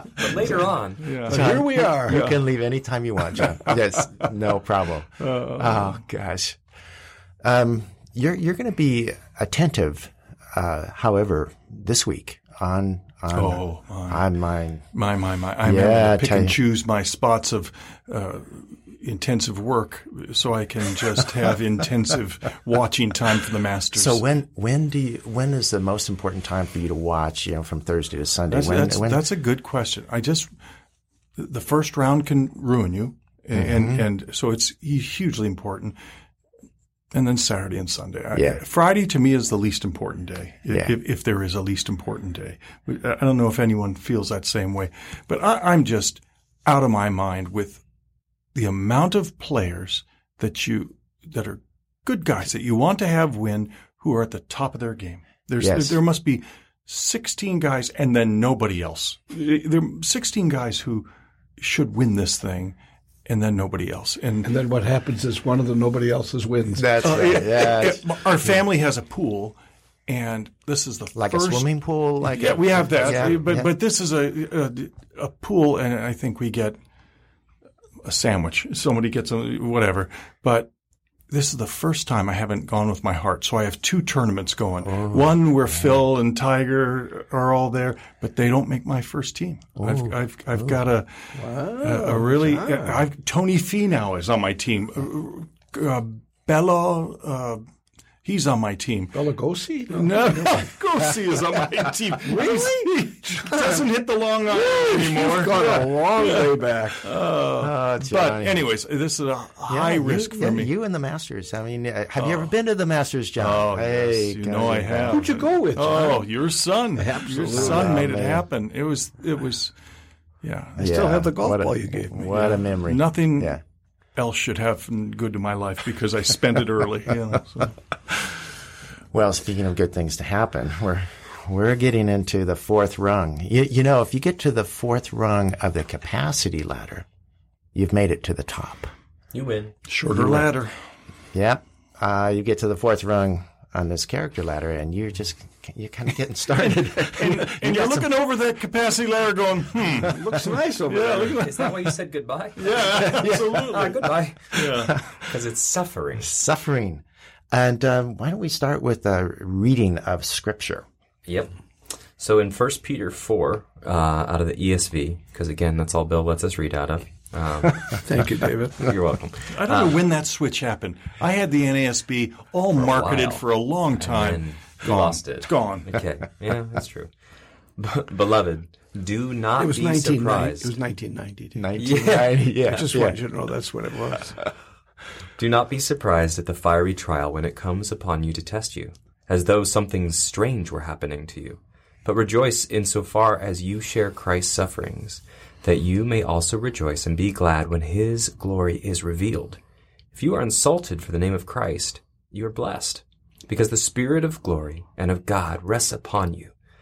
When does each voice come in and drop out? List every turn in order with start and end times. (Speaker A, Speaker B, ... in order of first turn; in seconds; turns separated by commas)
Speaker A: 0.2-1.1, Speaker B: 0.5-1.5, Speaker C: 1.3-2.3, Speaker D: 1.3-6.6, Speaker B: 2.1-2.4, Speaker B: 3.3-3.8, Speaker B: 5.2-6.0, Speaker D: 7.4-14.9, Speaker B: 13.3-14.3, Speaker B: 14.9-24.3, Speaker D: 15.6-16.6, Speaker D: 23.9-29.2, Speaker B: 28.5-30.5, Speaker B: 31.4-36.0, Speaker D: 33.5-34.0, Speaker B: 37.1-47.8, Speaker D: 38.3-38.6, Speaker B: 48.5-64.5, Speaker D: 55.6-56.0, Speaker C: 64.4-67.8, Speaker D: 66.8-68.6, Speaker B: 67.0-76.8, Speaker D: 71.2-73.7, Speaker C: 73.1-73.4, Speaker B: 78.0-80.7, Speaker B: 81.3-97.6, Speaker D: 84.8-86.0, Speaker D: 89.8-90.8, Speaker C: 91.4-93.1, Speaker B: 98.2-99.2, Speaker C: 99.1-100.6, Speaker B: 99.9-110.7, Speaker C: 102.3-103.9, Speaker C: 104.5-107.0, Speaker D: 107.5-108.6, Speaker D: 109.7-115.4, Speaker B: 112.2-112.5, Speaker B: 113.4-119.7, Speaker C: 115.1-116.3, Speaker C: 117.0-118.1, Speaker D: 117.4-118.5, Speaker B: 120.4-120.9, Speaker C: 120.8-122.3, Speaker D: 120.8-123.6, Speaker B: 122.1-123.6, Speaker B: 124.2-127.8, Speaker D: 129.1-137.1, Speaker D: 137.8-138.9, Speaker A: 139.3-139.8, Speaker B: 139.9-140.8, Speaker C: 140.1-140.4, Speaker D: 141.3-148.1, Speaker B: 147.0-151.7, Speaker C: 149.9-151.8, Speaker A: 151.2-154.6, Speaker B: 152.6-155.0, Speaker D: 152.9-155.2, Speaker A: 155.2-156.3, Speaker D: 156.2-160.9, Speaker A: 161.3-161.5, Speaker A: 162.2-168.0, Speaker C: 168.0-168.9, Speaker A: 168.8-170.0, Speaker B: 169.5-175.9, Speaker A: 172.8-173.5, Speaker A: 174.0-177.1, Speaker A: 177.8-180.8, Speaker C: 179.6-184.4, Speaker D: 181.6-183.2, Speaker A: 181.8-182.9, Speaker A: 185.4-199.6, Speaker A: 200.1-206.5